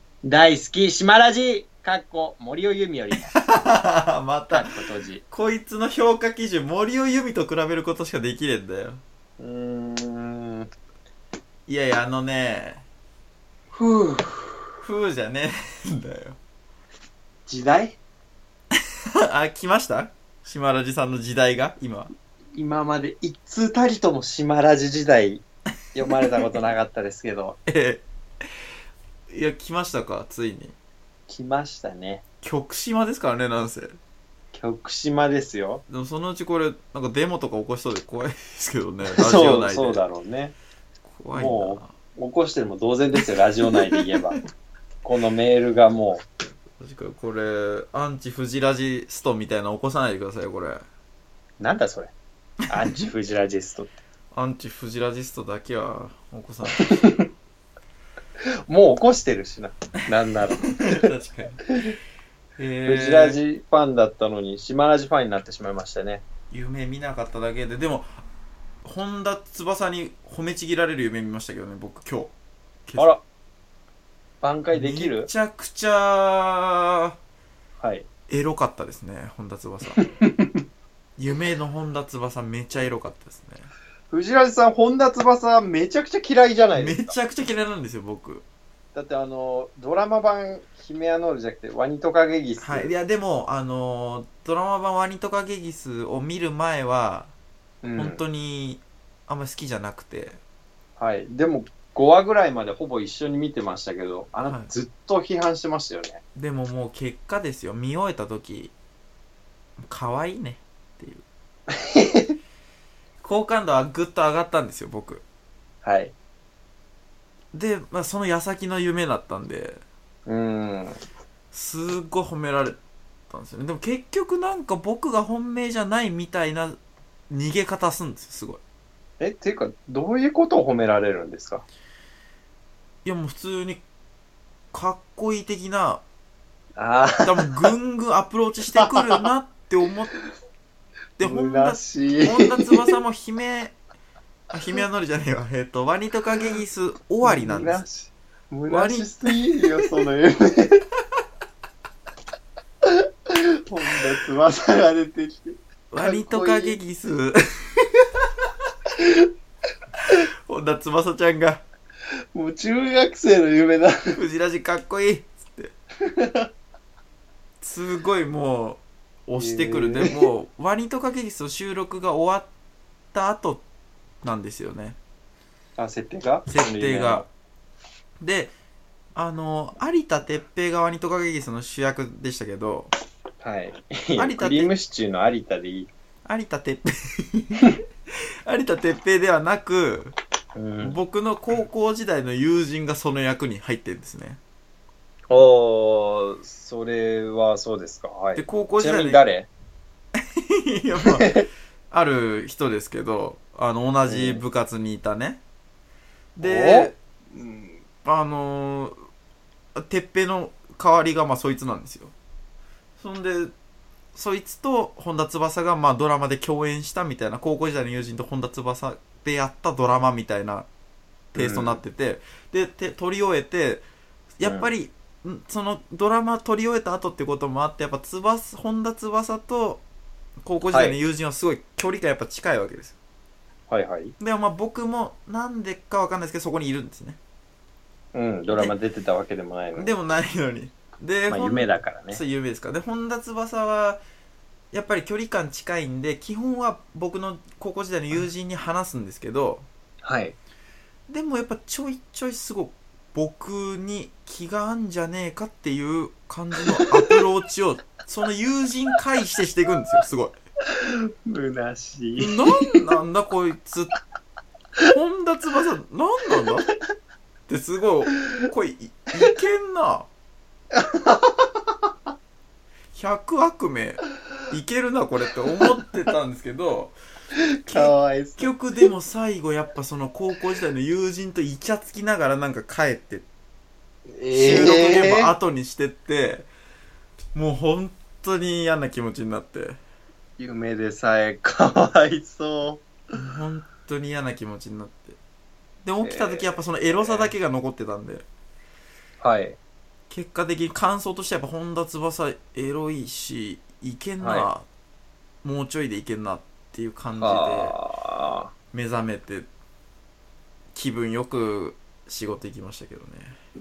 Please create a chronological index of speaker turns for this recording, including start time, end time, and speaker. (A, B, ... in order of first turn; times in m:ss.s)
0:00.2-0:03.3 A
0:03.3-0:04.7 B
0:04.5-0:05.2 A
0:05.3-0:09.0 B
0:09.4-0:10.7 A
0:11.7-0:12.8 B
0:13.7-0:14.6 A
0:14.8-0:16.4 B
0:17.5-0:18.0 A
0:19.2-0:22.1 B
0:22.6-0:27.6 A
0:27.6-0:28.0 B
0:29.3-0:30.7 B
0:31.3-0:32.2 A
0:32.4-0:34.0 B
0:34.5-0:35.8 A
0:35.9-0:40.0 B
0:39.1-0:40.5 A
0:41.0-0:41.9 B
0:41.3-0:44.4 A
0:43.7-0:44.2 B
0:45.0-0:46.2 A
0:46.8-0:50.8 B
0:51.6-0:52.1 A
0:52.7-0:54.0 A
0:54.3-0:56.9 B
0:56.6-0:57.3 A
0:58.4-1:01.0 A
1:00.6-1:01.6 B
1:02.6-1:03.4 B
1:02.8-1:06.2 A
1:06.5-1:08.2 B
1:08.8-1:12.3 B
1:12.8-1:13.1 B
1:13.0-1:13.2 A
1:14.4-1:15.3 A
1:14.7-1:17.2 B
1:17.8-1:18.0 A
1:18.3-1:20.0 B
1:20.0-1:20.6 A
1:21.2-1:23.7 B
1:24.1-1:27.1 A
1:26.7-1:28.4 B
1:28.9-1:32.9 A
1:32.6-1:37.3 B
1:37.8-1:38.2 A
1:38.0-1:40.4 B
1:41.0-1:46.2 A
1:46.4-1:48.7 B
1:49.8-1:51.2 B
1:51.7-1:52.3 A
1:53.2-1:55.2 B
1:55.8-1:56.1 A
1:57.5-1:59.8 B
2:00.3-2:01.0 A
2:01.5-2:02.8 B
2:03.3-2:06.8 B
2:07.3-2:08.6 B
2:09.2-2:11.6 A
2:13.0-2:13.8 B
2:14.7-2:16.0 B
2:16.8-2:17.7 A
2:17.2-2:20.1 B
2:18.7-2:19.2 A
2:21.2-2:23.7 B
2:21.2-2:22.8 A
2:24.5-2:27.8 B
2:27.2-2:30.8 A
2:28.7-2:29.8 B
2:32.8-2:36.8 A
2:35.9-2:38.4 B
2:40.0-2:41.6 B
2:42.3-2:44.2 A
2:44.1-2:45.7 B
2:46.0-2:46.5 A
2:47.6-2:52.5 B
2:49.4-2:50.2 A
2:53.1-2:53.6 B
2:54.2-2:55.0 B
2:55.8-2:57.3 A
2:56.5-2:57.2 B
2:58.2-2:58.5 B
2:59.1-3:02.9 B
3:03.4-3:05.9 A
3:04.2-3:04.7 B
3:06.2-3:07.7 B
3:08.4-3:10.1 B
3:10.6-3:11.0 A
3:10.8-3:14.4 B
3:15.3-3:19.5 A
3:18.4-3:19.2 B
3:20.2-3:25.4 B
3:21.1-3:21.4 A
3:24.1-3:24.4 A
3:26.4-3:26.9 B
3:26.4-3:27.8 A
3:28.0-3:29.0 B
3:29.7-3:32.1 B
3:33.0-3:33.5 B
3:34.1-3:40.7 B
3:41.3-3:43.8 B
3:41.4-3:41.8 A
3:44.4-3:49.8 B
3:44.4-3:44.7 A
3:50.4-3:53.0 B
3:50.7-3:51.0 A
3:53.7-3:54.1 A
3:54.2-3:57.2 B
3:58.1-3:59.9 A
3:59.7-4:04.0 B
4:01.3-4:02.2 A
4:04.7-4:09.6 B
4:10.0-4:10.4 A
4:11.1-4:20.4 B
4:16.6-4:17.1 A
4:20.7-4:22.4 A
4:22.2-4:23.9 B
4:24.9-4:26.7 B
4:27.5-4:30.1 B
4:30.7-4:31.5 A
4:32.9-4:37.0 B
4:37.6-4:43.2 B
4:37.7-4:38.5 A
4:44.2-4:45.3 A
4:44.3-4:46.5 B
4:47.3-4:49.8 B
4:50.4-4:52.8 A
4:53.1-4:55.2 B
4:55.8-4:58.2 B
4:56.0-4:57.3 A
4:59.2-4:59.6 A
5:00.1-5:04.6 B
5:04.2-5:04.5 A
5:05.4-5:07.7 B
5:07.2-5:08.5 A
5:08.7-5:09.5 B
5:10.7-5:13.4 B